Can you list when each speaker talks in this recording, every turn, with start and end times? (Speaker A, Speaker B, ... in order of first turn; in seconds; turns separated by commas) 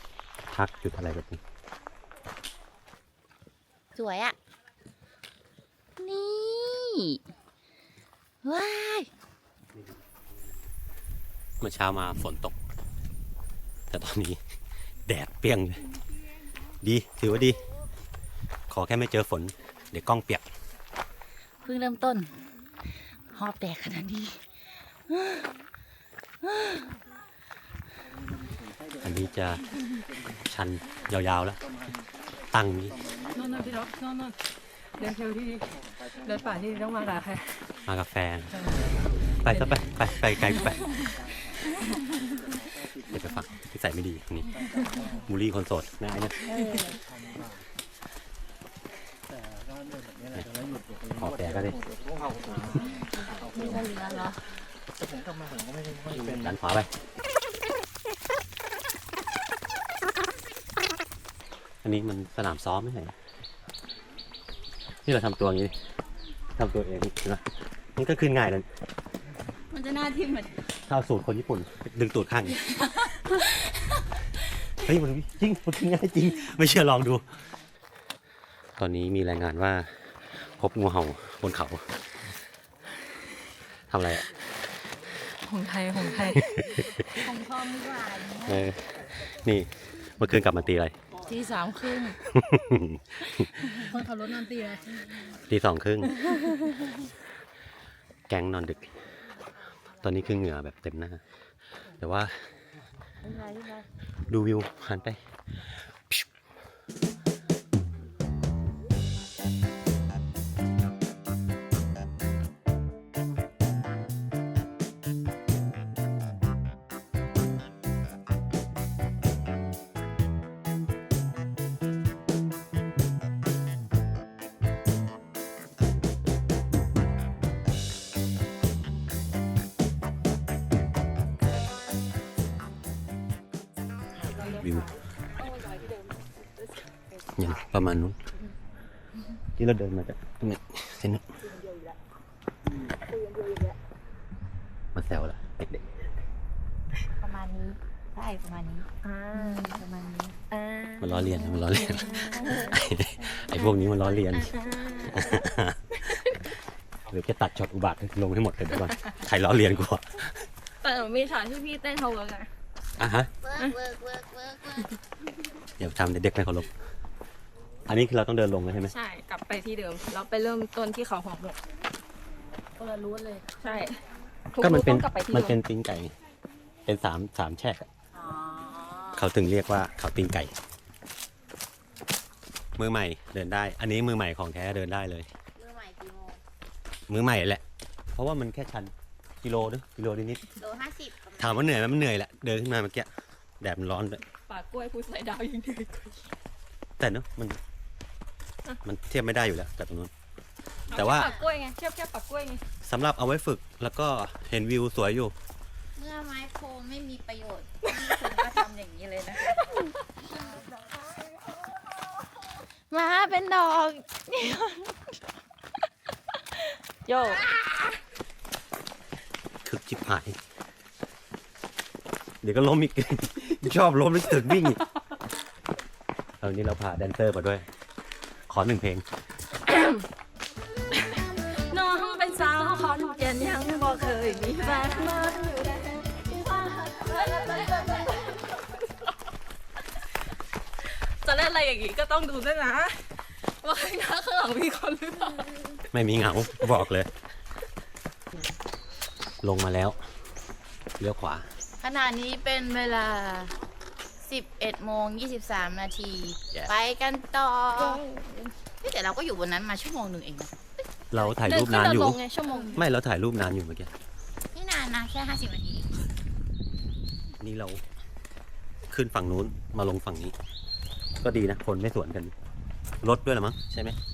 Speaker A: 0.5-1.4, Speaker B: 3.9-4.3, Speaker B: 6.0-7.2, Speaker B: 8.4-9.1, Speaker A: 11.6-12.6, Speaker A: 13.9-14.4, Speaker A: 15.1-15.8, Speaker A: 16.8-17.6, Speaker A: 18.7-20.4, Speaker B: 21.6-22.3, Speaker B: 23.3-24.4, Speaker B: 25.1-25.5, Speaker B: 26.4-26.9, Speaker A: 29.0-29.6, Speaker A: 30.4-31.6, Speaker A: 32.5-33.0, Speaker C: 33.3-34.3, Speaker C: 35.0-35.7, Speaker C: 36.2-37.6, Speaker A: 37.9-38.5, Speaker C: 38.5-38.9, Speaker A: 39.4-40.8, Speaker C: 39.5-39.8, Speaker A: 43.1-44.6, Speaker A: 45.2-46.4, Speaker B: 46.5-47.0, Speaker A: 50.3-51.8, Speaker B: 52.7-54.4, Speaker A: 56.0-56.9, Speaker A: 61.8-63.1, Speaker A: 65.0-65.7, Speaker A: 66.5-67.4, Speaker A: 68.0-68.7, Speaker B: 69.7-70.6, Speaker A: 70.9-72.6, Speaker B: 72.7-73.6, Speaker A: 74.8-77.2, Speaker A: 78.8-82.0, Speaker A: 83.9-84.3, Speaker C: 85.5-86.4, Speaker A: 86.3-87.2, Speaker B: 87.1-88.7, Speaker A: 88.4-90.9, Speaker B: 91.3-92.2, Speaker A: 92.2-93.5, Speaker C: 93.9-95.0, Speaker A: 95.5-96.2, Speaker A: 98.3-98.9, Speaker A: 100.0-101.2, Speaker A: 102.0-102.5, Speaker B: 103.2-103.8, Speaker A: 104.3-106.3, Speaker D: 134.3-137.3, Speaker A: 134.4-134.9, Speaker A: 137.3-138.2, Speaker A: 139.6-141.2, Speaker D: 141.4-142.0, Speaker D: 143.1-143.8, Speaker A: 144.9-145.8, Speaker B: 147.2-150.3, Speaker D: 149.0-149.8, Speaker D: 150.5-152.8, Speaker A: 151.0-154.6, Speaker B: 151.6-152.8, Speaker D: 154.5-155.4, Speaker A: 155.1-156.1, Speaker D: 156.0-156.4, Speaker A: 157.1-160.5, Speaker D: 160.8-162.5, Speaker A: 163.0-163.3, Speaker B: 163.4-164.9, Speaker A: 165.8-166.7, Speaker A: 167.9-168.9, Speaker D: 168.9-171.6, Speaker C: 172.8-173.5, Speaker D: 173.6-174.0, Speaker D: 174.5-175.6, Speaker A: 174.6-176.1, Speaker A: 176.8-177.9, Speaker B: 178.2-179.2, Speaker A: 179.1-180.5, Speaker A: 182.8-185.3, Speaker B: 185.6-186.4, Speaker A: 187.1-187.6, Speaker A: 188.1-190.4, Speaker B: 190.6-191.6, Speaker A: 191.4-193.1, Speaker A: 193.6-194.2, Speaker D: 194.5-196.1, Speaker A: 197.0-197.6, Speaker A: 198.8-200.1, Speaker D: 200.9-202.6, Speaker A: 200.9-201.3, Speaker B: 200.9-201.4, Speaker A: 202.8-205.3, Speaker B: 205.9-209.6, Speaker D: 210.3-211.6, Speaker B: 212.9-214.2, Speaker D: 214.3-214.9, Speaker D: 217.1-217.5, Speaker B: 217.1-217.9, Speaker A: 219.6-220.4, Speaker A: 222.4-224.8, Speaker A: 226.4-227.7, Speaker A: 228.5-229.0, Speaker D: 231.5-238.6, Speaker D: 241.2-245.7, Speaker A: 245.9-247.1, Speaker A: 249.4-250.0, Speaker A: 251.0-251.5, Speaker B: 251.8-253.5, Speaker B: 254.2-258.0, Speaker D: 257.8-258.5, Speaker B: 258.8-260.5, Speaker A: 261.1-262.2, Speaker D: 261.2-262.8, Speaker A: 262.7-263.9, Speaker B: 264.5-265.9, Speaker A: 267.4-267.8, Speaker A: 268.9-270.3, Speaker A: 271.2-272.3, Speaker A: 273.0-274.0